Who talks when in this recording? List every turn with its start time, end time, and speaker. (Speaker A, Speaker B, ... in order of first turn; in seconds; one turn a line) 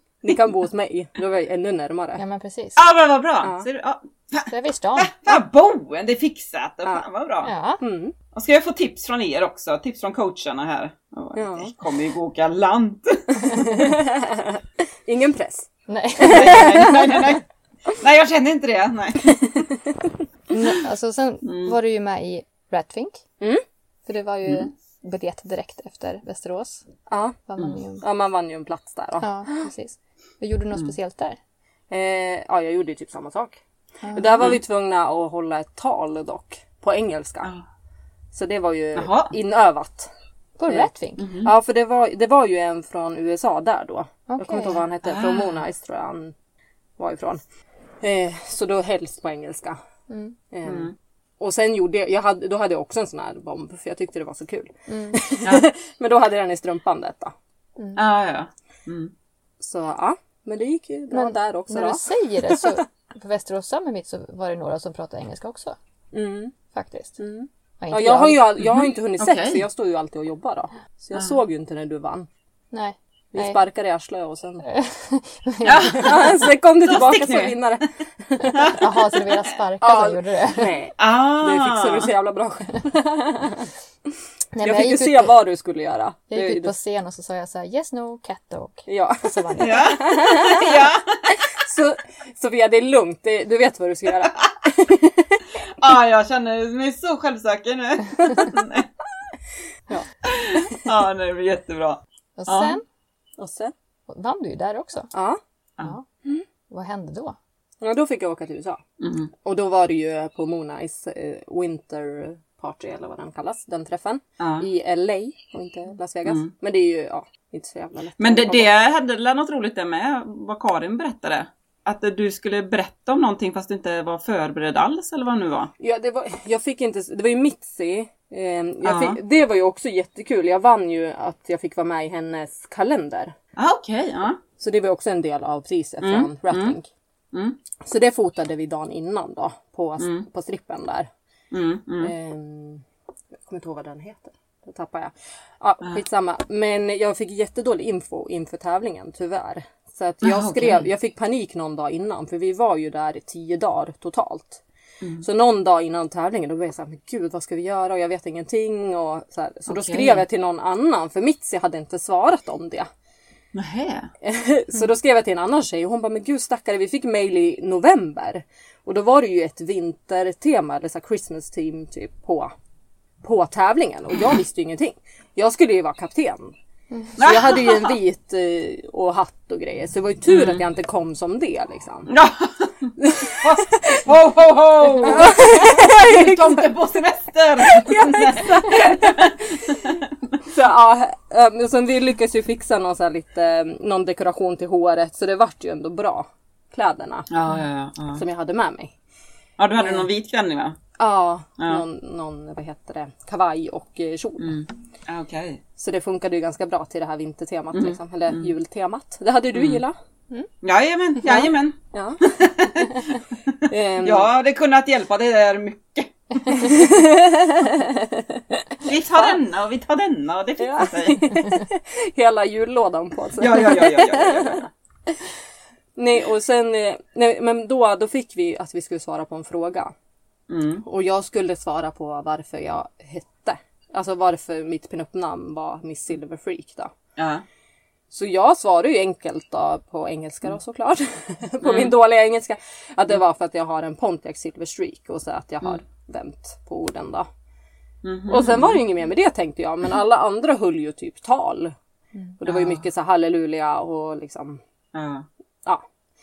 Speaker A: 0.2-2.2
Speaker B: 2.2-2.8
Speaker C: 2.8-7.5
Speaker B: 4.5-5.2
Speaker B: 7.4-7.8
Speaker A: 7.8-8.2
Speaker C: 8.3-13.7
Speaker A: 11.4-11.7
Speaker A: 13.4-17.4
Speaker B: 15.9-16.9
Speaker C: 16.2-19.6
Speaker A: 19.4-20.0
Speaker B: 20.5-23.2
Speaker C: 21.4-21.7
Speaker B: 24.1-26.9
Speaker A: 27.1-27.4
Speaker B: 27.5-28.0
Speaker A: 28.0-29.3
Speaker B: 29.2-31.4
Speaker A: 31.9-33.6
Speaker B: 34.0-34.5
Speaker A: 34.1-37.5
Speaker A: 38.3-40.1
Speaker C: 39.0-39.3
Speaker B: 40.6-41.3
Speaker A: 40.7-46.3
Speaker C: 41.2-41.5
Speaker B: 44.3-44.8
Speaker C: 45.0-45.6
Speaker A: 47.0-47.4
Speaker A: 48.0-49.8
Speaker B: 50.1-50.4
Speaker A: 50.5-57.3
Speaker C: 50.6-50.9
Speaker B: 54.9-55.3
Speaker C: 55.4-55.7
Speaker C: 58.0-59.1
Speaker A: 59.6-62.8
Speaker B: 61.1-65.8
Speaker A: 66.1-66.5
Speaker B: 66.7-67.2
Speaker A: 67.2-72.3
Speaker B: 67.8-68.4
Speaker C: 68.6-69.6
Speaker B: 72.7-73.6
Speaker A: 73.3-74.7
Speaker B: 74.6-76.2
Speaker C: 75.6-77.6
Speaker A: 75.8-78.7
Speaker B: 78.4-80.7
Speaker A: 79.8-83.7
Speaker C: 81.0-82.1
Speaker B: 84.5-85.3
Speaker A: 84.6-86.7
Speaker B: 86.3-89.9
Speaker A: 88.9-95.4
Speaker C: 89.6-91.4
Speaker C: 95.8-98.9
Speaker A: 99.9-100.9
Speaker C: 100.3-102.8
Speaker B: 102.4-102.8
Speaker A: 103.4-103.7
Speaker B: 104.1-105.1
Speaker A: 105.1-105.4
Speaker B: 106.7-107.4
Speaker A: 107.8-108.8
Speaker C: 109.0-109.3
Speaker A: 109.4-118.7
Speaker C: 114.4-114.7
Speaker C: 116.3-116.5
Speaker C: 118.2-125.7
Speaker A: 125.8-133.3
Speaker C: 128.8-129.2
Speaker C: 133.6-134.4
Speaker A: 134.6-136.9
Speaker C: 136.0-136.8
Speaker C: 137.3-137.6
Speaker A: 137.8-141.1
Speaker C: 140.0-140.3
Speaker C: 141.5-142.1
Speaker A: 142.0-142.8
Speaker A: 143.4-154.6
Speaker C: 150.2-150.9
Speaker A: 155.2-162.9
Speaker B: 159.8-160.2
Speaker C: 163.5-164.1
Speaker A: 164.2-172.5
Speaker A: 173.2-176.6
Speaker B: 176.9-177.2
Speaker A: 177.2-182.1
Speaker C: 177.2-178.0
Speaker C: 180.3-180.6
Speaker C: 182.1-190.0
Speaker A: 183.0-184.1
Speaker A: 184.9-186.7
Speaker A: 187.6-189.8
Speaker A: 190.4-197.3
Speaker C: 197.3-198.2
Speaker A: 198.2-198.9
Speaker C: 199.6-200.8
Speaker A: 199.8-200.1
Speaker A: 201.0-204.6
Speaker C: 201.6-201.8
Speaker C: 204.4-205.6
Speaker A: 205.8-210.0
Speaker C: 207.7-208.5
Speaker C: 209.5-209.8
Speaker C: 210.6-216.6
Speaker A: 211.3-212.3
Speaker A: 213.7-214.3
Speaker A: 216.5-218.4
Speaker C: 218.8-221.4
Speaker A: 220.6-225.2
Speaker C: 223.4-224.7
Speaker A: 226.0-229.9
Speaker C: 230.5-230.8
Speaker A: 230.8-236.9
Speaker C: 237.2-237.4
Speaker A: 238.1-247.3
Speaker C: 241.6-241.9
Speaker C: 248.0-248.8
Speaker A: 248.3-251.8
Speaker A: 252.4-254.6
Speaker C: 252.4-252.8
Speaker C: 254.9-255.3